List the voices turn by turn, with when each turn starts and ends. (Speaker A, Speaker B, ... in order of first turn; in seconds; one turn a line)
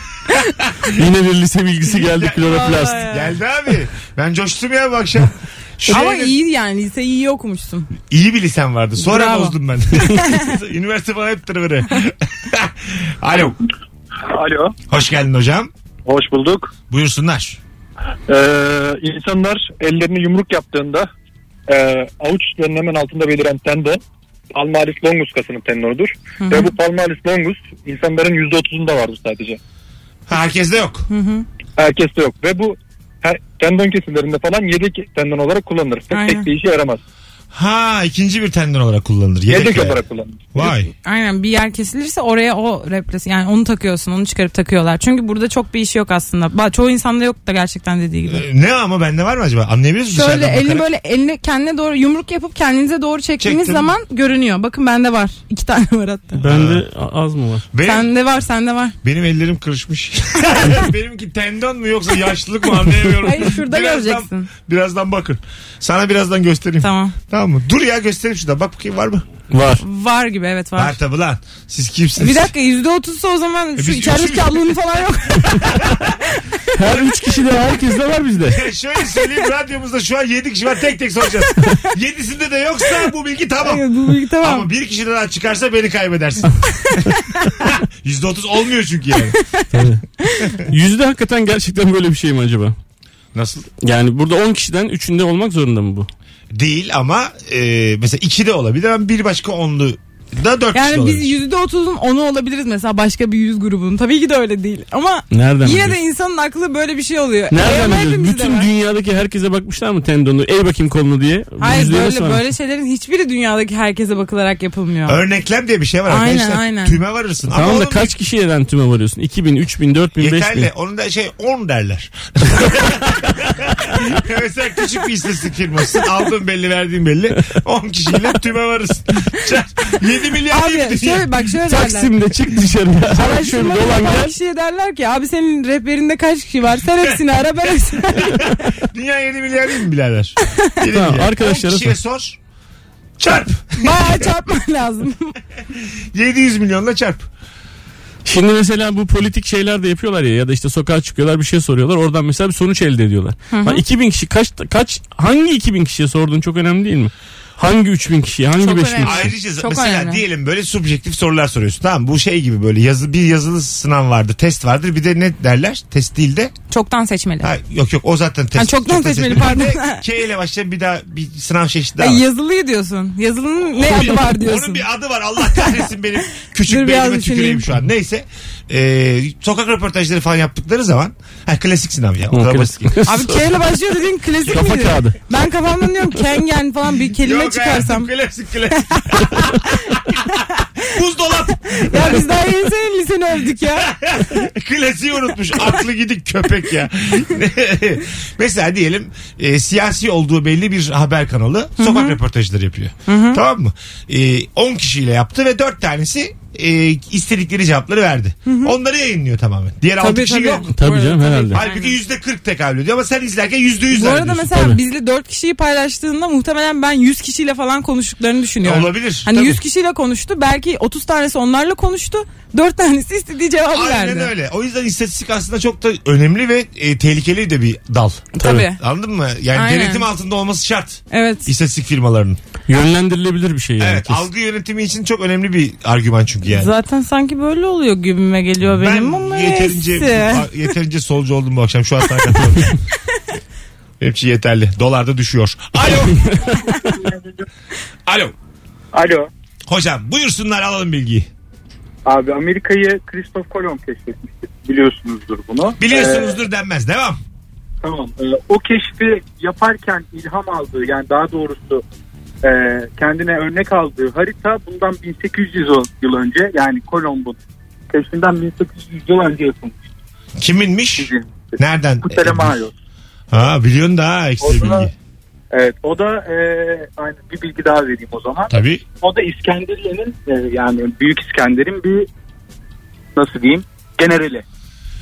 Speaker A: 0.3-0.9
Speaker B: 0.9-3.0
Speaker A: 2.1-6.3
Speaker C: 2.5-3.3
Speaker C: 5.9-7.9
Speaker A: 8.1-13.6
Speaker C: 9.0-10.5
Speaker A: 14.9-15.7
Speaker D: 16.1-16.7
Speaker A: 16.9-17.6
Speaker D: 18.3-21.1
Speaker D: 21.7-24.0
Speaker D: 24.5-29.6
Speaker C: 26.4-26.7
Speaker A: 30.3-31.1
Speaker C: 31.1-31.4
Speaker D: 31.8-37.0
Speaker C: 36.1-36.5
Speaker A: 37.5-40.0
Speaker D: 39.5-40.7
Speaker A: 40.5-40.9
Speaker C: 41.0-48.4
Speaker A: 48.3-50.9
Speaker C: 50.1-56.4
Speaker A: 53.4-53.9
Speaker B: 56.4-57.6
Speaker A: 56.4-56.9
Speaker A: 57.7-58.1
Speaker C: 57.9-59.0
Speaker A: 59.0-69.3
Speaker C: 63.2-64.5
Speaker C: 66.8-67.2
Speaker B: 69.5-69.8
Speaker C: 69.8-71.0
Speaker A: 70.8-72.5
Speaker C: 72.2-75.7
Speaker A: 73.8-74.8
Speaker A: 75.6-76.2
Speaker B: 76.8-78.6
Speaker A: 78.5-89.4
Speaker C: 83.6-84.7
Speaker C: 89.3-89.7
Speaker B: 89.7-90.0
Speaker C: 90.2-90.5
Speaker B: 90.7-92.8
Speaker A: 93.3-93.7
Speaker B: 93.8-96.1
Speaker A: 96.5-101.3
Speaker C: 100.7-108.7
Speaker B: 105.3-106.0
Speaker B: 107.5-112.4
Speaker C: 111.6-115.2
Speaker A: 115.1-118.2
Speaker C: 116.1-117.0
Speaker B: 117.5-120.7
Speaker A: 120.2-131.3
Speaker C: 130.5-132.1
Speaker B: 131.7-134.3
Speaker C: 133.1-138.7
Speaker A: 138.2-142.4
Speaker B: 140.9-141.9
Speaker A: 143.2-144.2
Speaker C: 143.8-145.4
Speaker A: 146.1-147.3
Speaker B: 148.2-159.3
Speaker C: 153.5-153.8
Speaker C: 158.6-160.2
Speaker A: 159.0-166.5
Speaker C: 166.7-167.5
Speaker A: 167.4-172.2
Speaker C: 168.6-170.0
Speaker C: 172.0-174.8
Speaker A: 173.8-183.0
Speaker C: 175.4-175.9
Speaker C: 176.7-177.7
Speaker B: 182.3-183.4
Speaker C: 183.1-188.1
Speaker B: 184.4-185.2
Speaker A: 187.2-192.3
Speaker C: 188.7-190.4
Speaker C: 191.7-193.9
Speaker A: 193.6-210.7
Speaker C: 201.8-202.2
Speaker C: 203.1-203.4
Speaker C: 208.5-208.7
Speaker C: 210.0-212.0
Speaker B: 210.7-211.6
Speaker A: 211.5-214.4
Speaker C: 213.9-224.3
Speaker B: 214.4-214.8
Speaker A: 218.6-219.6
Speaker A: 223.7-232.4
Speaker C: 228.3-228.8
Speaker C: 229.5-230.1
Speaker C: 231.1-231.5
Speaker B: 232.7-234.2
Speaker A: 233.8-236.7
Speaker C: 236.5-240.5
Speaker A: 238.6-242.7
Speaker A: 244.0-246.2
Speaker B: 246.5-246.8
Speaker A: 248.1-248.3
Speaker A: 249.7-251.3
Speaker E: 252.4-254.0
Speaker A: 255.8-257.2
Speaker E: 258.6-258.9
Speaker E: 259.9-260.2
Speaker E: 263.1-264.1
Speaker A: 270.4-272.6
Speaker A: 273.3-274.9
Speaker A: 278.5-278.8